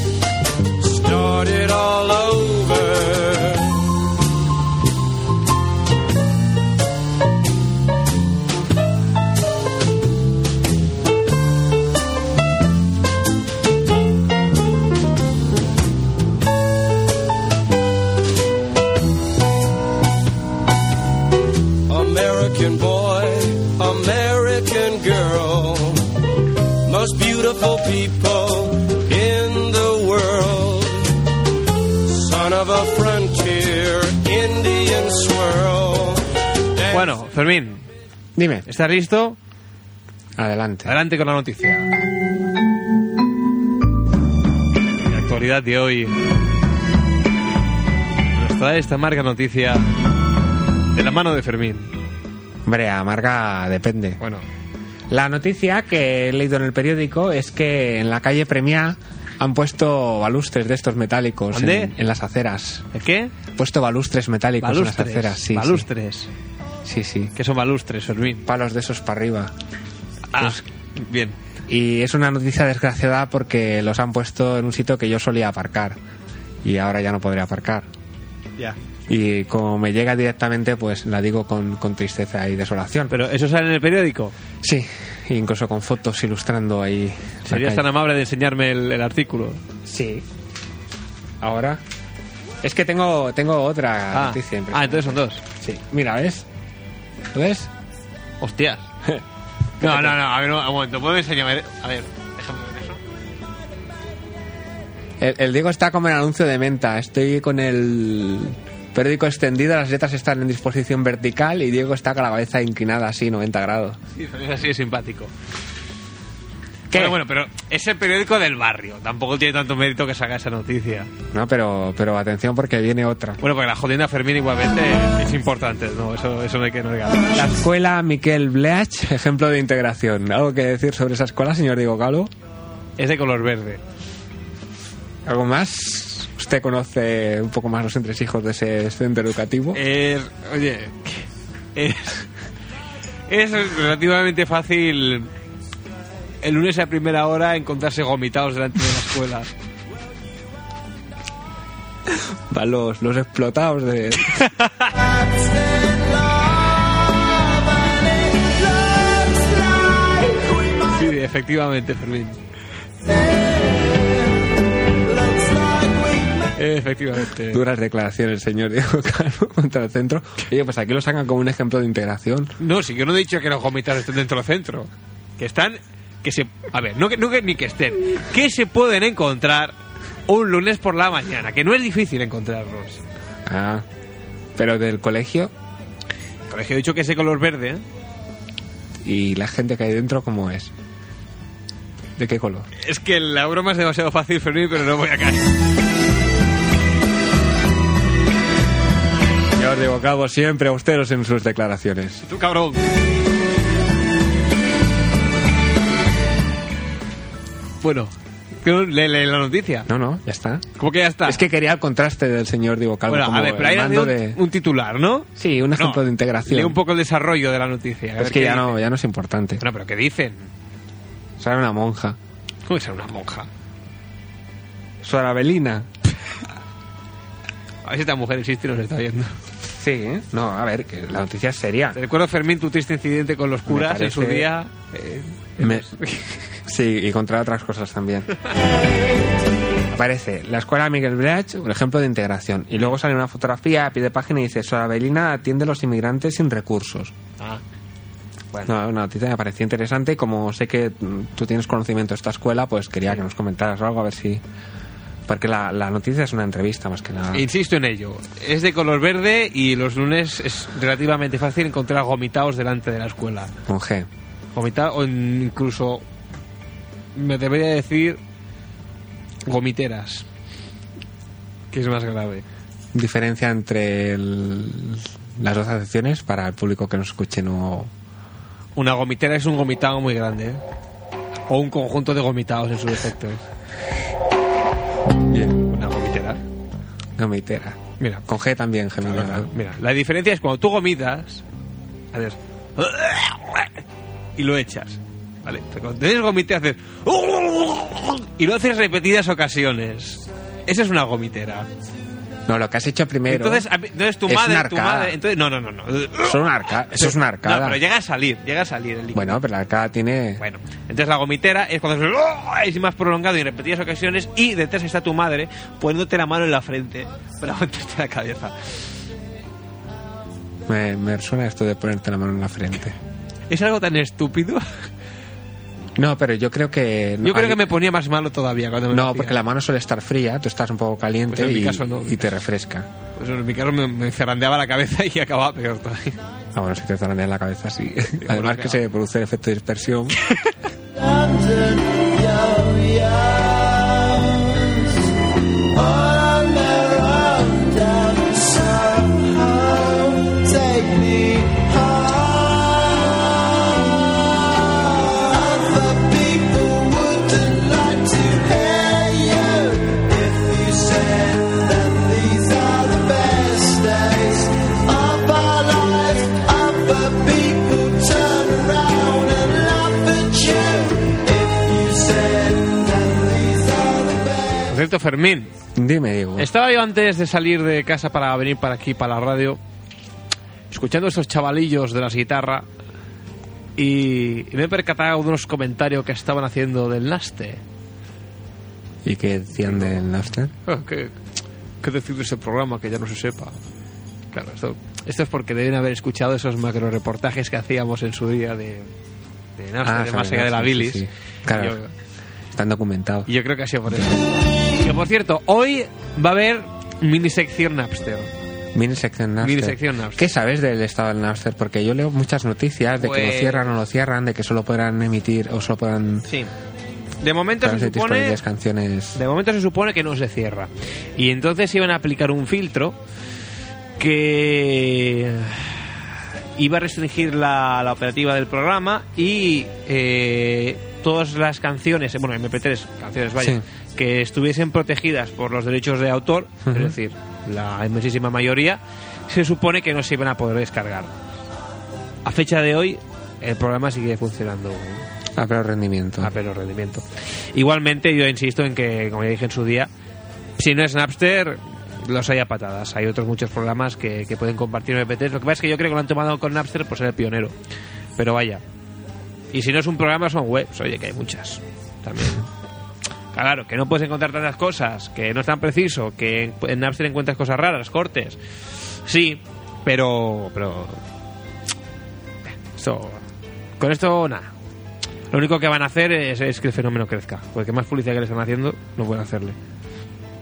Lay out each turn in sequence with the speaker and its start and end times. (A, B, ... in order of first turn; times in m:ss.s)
0:00.8-0:03.8 A
0:21.9-0:26.2 A
0:26.8-0:31.2 A
0:32.0-0:37.1 A
0:36.9-0:37.8 B
0:38.4-0:38.6 C
0:38.6-0:39.4 B
0:40.4-0:40.9 C
0:40.8-0:41.9 B
0:45.0-0:46.2 B
0:48.3-0:49.9 B
0:50.9-0:51.9 B
0:52.6-0:54.2 C
0:54.2-0:54.4 B
0:55.1-1:02.9 C
1:01.5-1:01.9 B
1:02.9-1:03.3 B
1:03.6-1:05.9 C
1:04.6-1:06.3 B
1:06.8-1:07.3 C
1:07.4-1:08.5 B
1:08.4-1:09.5 C
1:10.3-1:11.4 B
1:10.4-1:10.6 C
1:11.7-1:16.0 C
1:16.6-1:17.9 C
1:19.1-1:23.1 C
1:23.1-1:24.3 B
1:24.6-1:27.9 C
1:27.5-1:29.6 B
1:29.8-1:30.2 C
1:31.4-1:31.8 C
1:32.6-1:36.4 C
1:34.1-1:35.4 B
1:37.3-1:37.7 C
1:38.4-1:38.9 B
1:39.8-1:40.1 C
1:39.8-1:43.0 B
1:45.2-1:54.0 C
1:54.2-1:55.3 B
1:56.9-1:57.2 C
1:56.9-2:01.1 B
2:01.3-2:03.4 C
2:03.4-2:07.4 B
2:07.3-2:12.3 C
2:13.0-2:13.8 B
2:15.2-2:19.8 C
2:19.7-2:22.2 B
2:23.3-2:25.3 B
2:26.4-2:29.5 B
2:32.1-2:34.5 C
2:34.3-2:34.9 B
2:40.2-2:40.4 D
2:40.8-2:42.4 B
2:45.3-2:46.1 D
2:46.5-2:47.6 B
2:47.4-2:52.5 C
2:52.6-2:59.7 B
3:00.3-3:03.0 B
3:03.4-3:03.8 C
3:04.6-3:05.5 C
3:06.5-3:07.8 B
3:09.0-3:10.7 C
3:12.2-3:12.7 C
3:12.8-3:15.5 B
3:19.5-3:22.2 C
3:22.2-3:22.9 B
3:27.8-3:29.9 B
3:29.9-3:30.7 C
3:30.8-3:31.4 B
3:31.2-3:34.4 C
3:33.1-3:38.8 B
3:35.4-3:36.8 C
3:38.2-3:39.6 C
3:39.6-3:40.5 B
3:41.4-3:42.2 C
3:42.7-3:43.5 B
3:45.0-3:45.9 C
3:47.8-3:49.4 B
3:49.8-3:52.0 C
3:51.9-3:56.3 B
3:53.7-3:54.5 C
3:55.6-3:55.9 C
3:56.6-3:58.3 C
3:59.9-4:07.1 C
4:08.6-4:14.4 C
4:15.3-4:17.5 C
4:17.3-4:23.5 B
4:23.7-4:24.1 C
4:24.5-4:26.0 B
4:27.1-4:28.2 B
4:29.4-4:30.2 B
4:31.7-4:32.4 B
4:32.9-4:37.9 C
4:38.8-4:40.6 B
4:41.5-4:43.4 B
4:45.3-4:45.6 C
4:45.6-4:46.4 B
4:47.2-4:49.5 C
4:49.0-4:51.4 B
4:52.1-4:53.7 B
4:54.4-5:01.7 B
5:02.4-5:03.7 C
5:03.3-5:09.4 B
5:04.3-5:05.2 C
5:06.2-5:07.8 C
5:09.1-5:10.4 C
5:10.4-5:18.5 B
5:20.7-5:23.0 C
5:23.5-5:24.6 B
5:26.0-5:27.7 C
5:27.2-5:29.4 B
5:28.9-5:32.9 C
5:31.3-5:32.3 B
5:33.2-5:36.2 B
5:36.5-5:40.2 C
5:38.2-5:38.8 B
5:40.2-5:40.5 B
5:41.0-5:45.0 D
5:45.7-6:14.5 D
6:14.7-6:15.5 B
6:15.8-6:16.5 C
6:16.4-6:19.6 B
6:20.7-6:22.7 B
6:23.8-6:27.6 B
6:29.0-6:30.5 C
6:29.6-6:30.0 B
6:30.6-6:31.1 B
6:31.8-6:33.6 B
6:34.3-6:38.9 B
6:39.6-6:41.9 B
6:39.8-6:41.8 C
6:42.5-6:43.3 C
6:43.3-6:48.3 B
6:48.7-6:56.3 C
6:49.4-6:50.3 B
6:53.0-6:53.7 B
6:57.2-6:58.4 B
6:57.6-6:59.2 C
6:59.1-7:03.0 B
7:04.0-7:06.0 B
7:06.6-7:21.1 B
7:13.4-7:13.6 C
7:16.6-7:16.9 C
7:22.2-7:25.1 B
7:25.4-7:26.3 C
7:26.2-7:29.9 B
7:30.6-7:37.6 B
7:38.2-7:38.6 B
7:39.5-7:42.4 B
7:43.3-7:48.4 B
7:49.0-7:51.0 B
7:52.5-7:53.2 B
7:53.8-7:54.5 B
7:55.3-7:59.6 B